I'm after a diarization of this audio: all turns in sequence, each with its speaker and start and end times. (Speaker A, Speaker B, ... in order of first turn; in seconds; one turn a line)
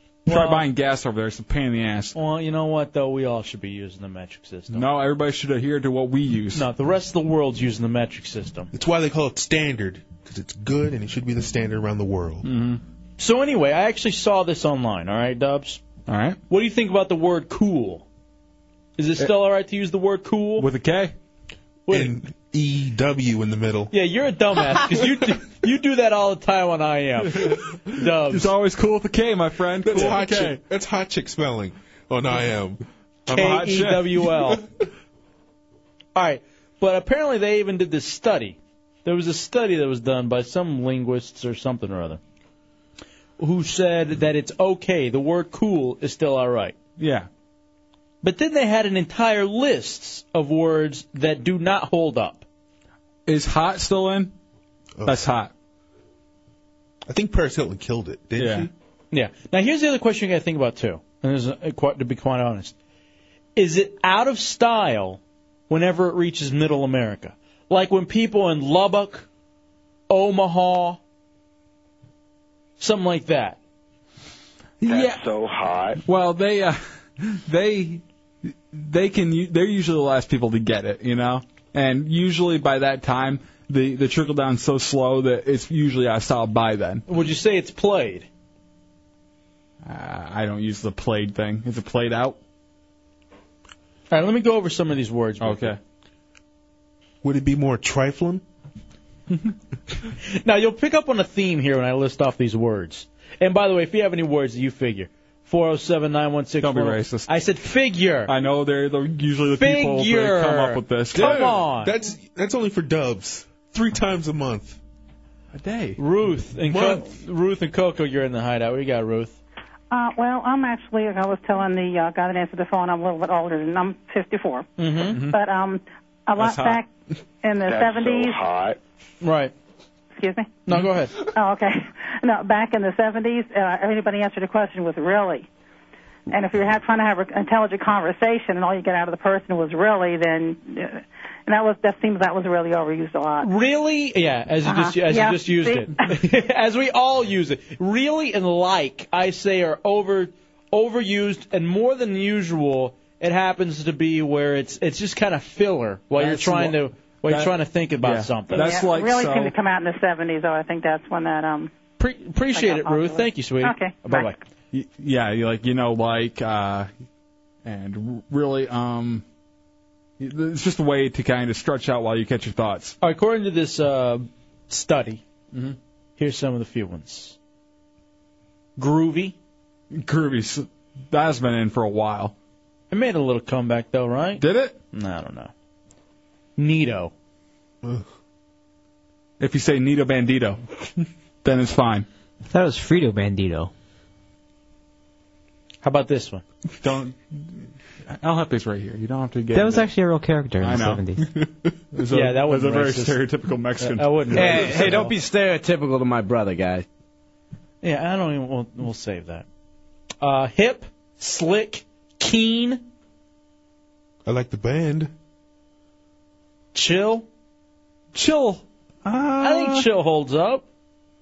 Speaker A: 0.3-0.7
Speaker B: 0.3-2.1
Speaker A: 2.1-4.8
Speaker B: 4.7-6.7
Speaker A: 6.5-8.7
Speaker C: 8.7-12.4
Speaker B: 12.4-12.8
Speaker A: 13.2-15.8
Speaker B: 16.1-16.4
Speaker A: 16.5-18.0
Speaker A: 19.0-20.7
Speaker B: 20.6-21.1
Speaker A: 21.9-22.1
Speaker C: 21.9-23.9
Speaker A: 23.9-28.5
Speaker B: 28.3-30.6
Speaker C: 29.8-32.8
Speaker B: 33.3-34.2
Speaker A: 33.3-34.6
Speaker A: 36.1-42.2
Speaker A: 43.4-46.8
Speaker B: 47.0-47.3
Speaker A: 48.2-52.4
Speaker B: 53.2-54.3
Speaker C: 55.0-55.2
Speaker B: 55.0-55.5
Speaker C: 57.1-58.7
Speaker B: 58.4-58.7
Speaker A: 59.1-62.7
Speaker A: 63.5-69.2
Speaker A: 70.1-71.0
Speaker A: 72.8-73.6
Speaker B: 74.8-75.2
Speaker D: 74.9-76.0
Speaker B: 76.0-78.0
Speaker B: 78.7-87.0
Speaker A: 87.1-88.3
Speaker B: 89.8-92.4
Speaker A: 94.1-95.7
Speaker B: 95.4-95.8
Speaker C: 97.2-98.4
Speaker A: 100.4-108.3
Speaker B: 106.6-107.3
Speaker B: 108.3-111.5
Speaker A: 109.5-111.9
Speaker C: 111.1-114.8
Speaker B: 115.5-116.0
Speaker A: 116.0-119.4
Speaker C: 116.7-117.1
Speaker E: 119.9-124.7
Speaker A: 124.8-125.2
Speaker E: 125.2-126.9
Speaker B: 126.4-126.8
Speaker E: 127.4-128.4
Speaker D: 127.6-128.8
Speaker A: 129.2-129.5
Speaker E: 130.2-130.6
Speaker A: 130.7-131.1
Speaker E: 131.3-135.4
Speaker E: 136.3-143.5
Speaker A: 143.4-158.8
Speaker E: 144.6-146.0
Speaker B: 156.2-159.5
Speaker E: 158.5-161.7
Speaker A: 162.0-164.4
Speaker E: 162.5-164.3
Speaker B: 164.7-166.9
Speaker B: 167.6-169.2
Speaker B: 170.2-172.9
Speaker A: 173.0-175.2
Speaker A: 176.2-177.3
Speaker A: 178.8-179.3
Speaker B: 179.9-182.3
Speaker A: 182.9-185.5
Speaker B: 184.4-184.8
Speaker A: 186.6-187.1
Speaker B: 189.4-190.6
Speaker B: 191.4-192.1
Speaker F: 192.5-193.7
Speaker A: 195.8-196.4
Speaker B: 196.8-199.9
Speaker F: 199.5-201.2
Speaker B: 200.6-201.1
Speaker B: 201.9-205.0
Speaker A: 202.1-203.2
Speaker A: 203.8-205.1
Speaker G: 204.3-206.8
Speaker A: 207.8-209.4
Speaker A: 210.2-212.8
Speaker C: 214.2-215.1
Speaker A: 216.7-217.3
Speaker B: 218.1-219.9
Speaker A: 219.4-220.6